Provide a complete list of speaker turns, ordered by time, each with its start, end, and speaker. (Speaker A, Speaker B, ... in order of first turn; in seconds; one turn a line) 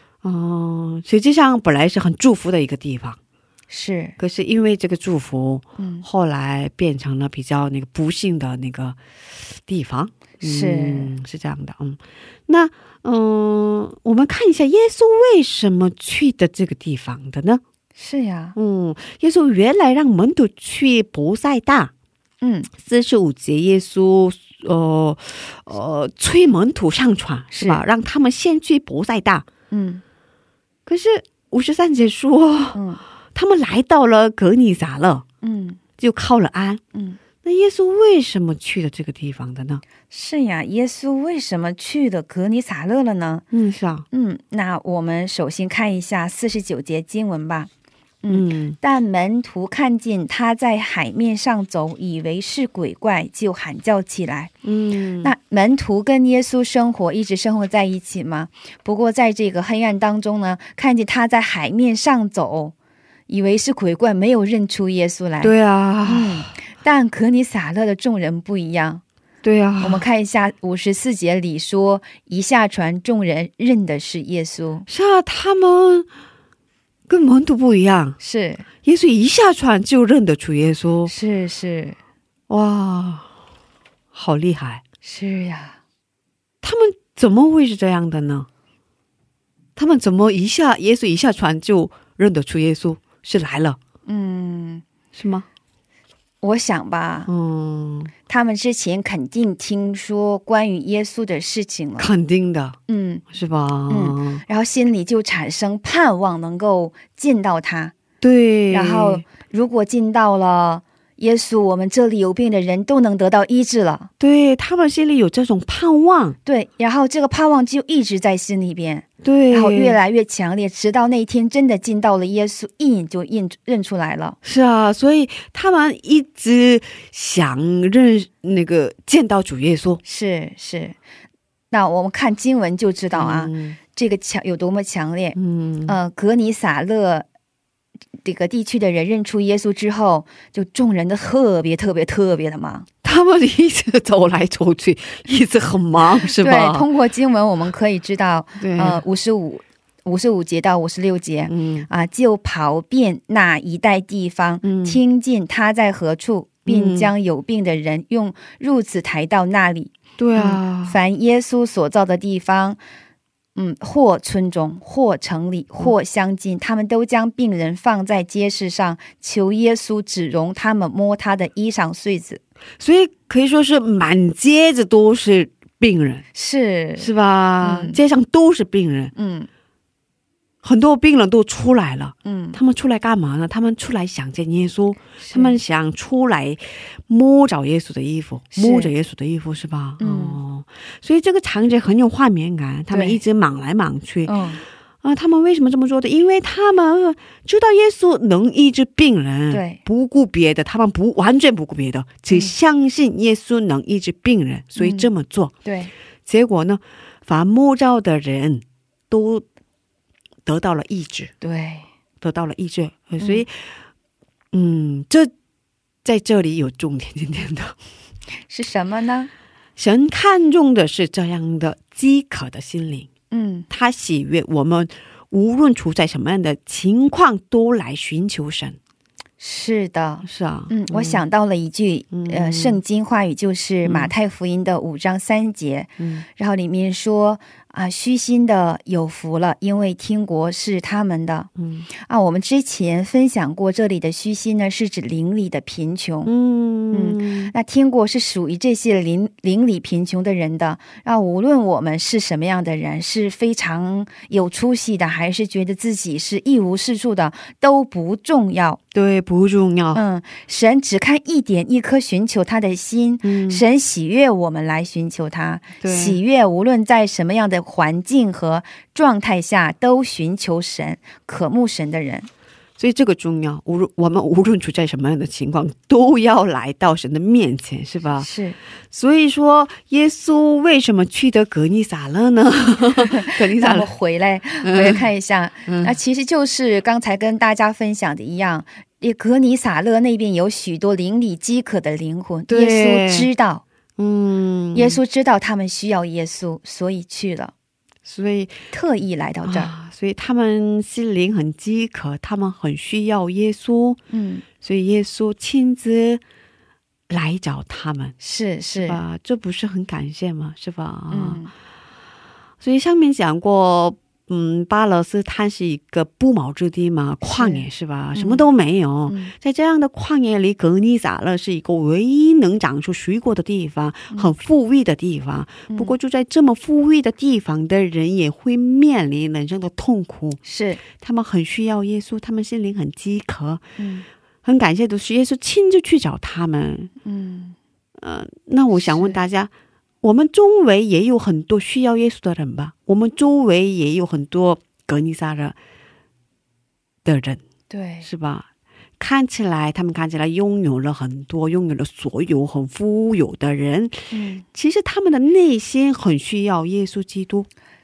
Speaker A: 0.2-3.2
Speaker B: 3.7-4.2
Speaker A: 4.2-17.6
Speaker B: 5.8-6.1
Speaker B: 10.4-11.1
Speaker B: 17.9-18.6
Speaker A: 18.6-21.9
Speaker B: 22.4-22.7
Speaker A: 22.8-29.4
Speaker B: 27.5-27.8
Speaker B: 29.7-30.0
Speaker A: 30.9-32.8
Speaker B: 32.8-33.0
Speaker A: 33.3-35.2
Speaker B: 35.4-35.8
Speaker A: 36.0-36.8
Speaker B: 36.9-37.2
Speaker A: 37.4-39.8
Speaker B: 40.1-43.4
Speaker A: 43.5-44.0
Speaker B: 44.1-47.7
Speaker B: 48.2-54.5
Speaker A: 48.3-48.8
Speaker A: 54.6-55.3
Speaker B: 55.2-62.8
Speaker B: 63.3-65.5
Speaker A: 65.4-66.5
Speaker B: 66.0-69.0
Speaker A: 69.4-70.1
Speaker B: 69.8-74.9
Speaker A: 74.9-76.1
Speaker A: 77.1-78.2
Speaker B: 78.2-78.7
Speaker A: 78.8-81.1
Speaker B: 81.1-82.0
Speaker A: 82.5-83.3
Speaker A: 84.1-84.8
Speaker B: 85.0-85.8
Speaker A: 86.6-88.5
Speaker A: 89.8-93.8
Speaker B: 94.1-94.8
Speaker A: 95.1-95.5
Speaker B: 96.4-97.3
Speaker A: 97.3-98.1
Speaker B: 98.3-102.1
Speaker A: 102.0-102.8
Speaker B: 102.9-103.2
Speaker A: 103.3-104.4
Speaker B: 103.9-107.9
Speaker A: 108.2-109.2
Speaker B: 108.7-114.1
Speaker A: 114.2-116.4
Speaker B: 116.4-124.4
Speaker A: 119.2-120.0
Speaker A: 124.4-130.0
Speaker B: 130.0-131.0
Speaker B: 131.7-137.3
Speaker A: 133.1-133.8
Speaker A: 135.3-136.0
Speaker B: 138.2-142.9
Speaker A: 143.0-146.9
Speaker B: 146.4-162.8
Speaker A: 148.6-149.0
Speaker A: 151.5-151.9
Speaker A: 154.6-155.0
Speaker A: 156.7-157.1
Speaker A: 160.2-161.0
Speaker B: 163.6-172.4
Speaker A: 172.8-176.2
Speaker B: 176.3-177.1
Speaker A: 177.0-179.1
Speaker B: 177.6-178.0
Speaker B: 179.1-179.5
Speaker A: 180.6-194.4
Speaker B: 182.2-182.6
Speaker B: 185.2-185.6
Speaker B: 188.5-188.9
Speaker B: 190.0-190.4
Speaker B: 192.9-193.2
Speaker B: 194.2-194.6
Speaker A: 195.0-205.5
Speaker B: 199.5-199.8
Speaker B: 204.8-205.1
Speaker B: 205.6-205.9
Speaker A: 206.3-209.4
Speaker A: 210.4-211.3
Speaker B: 211.4-211.9
Speaker A: 212.2-213.7
Speaker A: 214.5-215.3
Speaker A: 216.1-217.7
Speaker B: 218.5-219.3
Speaker A: 219.8-223.1
Speaker B: 223.3-223.7
Speaker A: 223.7-228.8
Speaker B: 229.4-246.3
Speaker A: 230.2-231.3
Speaker A: 232.1-232.8
Speaker A: 233.8-234.1
Speaker A: 236.0-236.3
Speaker A: 241.6-241.9
Speaker A: 246.3-247.5
Speaker B: 246.9-258.8
Speaker A: 258.9-260.0
Speaker B: 259.9-272.3
Speaker A: 263.2-263.6
Speaker A: 265.8-266.2
Speaker A: 272.8-278.3
Speaker B: 278.2-278.6
Speaker A: 278.9-283.9
Speaker B: 283.1-293.6
Speaker A: 284.6-285.1
Speaker A: 285.7-285.9
Speaker A: 292.5-293.3
Speaker A: 294.0-295.0
Speaker B: 294.7-297.5
Speaker A: 298.1-298.6
Speaker B: 298.7-299.7
Speaker A: 299.4-304.0
Speaker B: 304.1-304.4
Speaker A: 304.6-306.2
Speaker A: 307.1-308.1
Speaker B: 308.2-309.0
Speaker A: 308.8-311.4
Speaker B: 311.1-311.5
Speaker A: 312.6-330.4
Speaker B: 317.2-318.5
Speaker B: 319.1-319.3
Speaker B: 325.7-325.9
Speaker B: 330.4-330.8
Speaker A: 331.0-333.6
Speaker B: 333.8-334.1
Speaker A: 334.4-336.9
Speaker B: 337.0-337.6
Speaker A: 338.0-339.5
Speaker B: 338.7-339.2
Speaker A: 340.0-345.6
Speaker A: 347.1-347.4
Speaker B: 347.7-348.1
Speaker A: 348.0-348.5
Speaker A: 349.0-354.0
Speaker B: 354.1-354.4
Speaker A: 354.5-357.5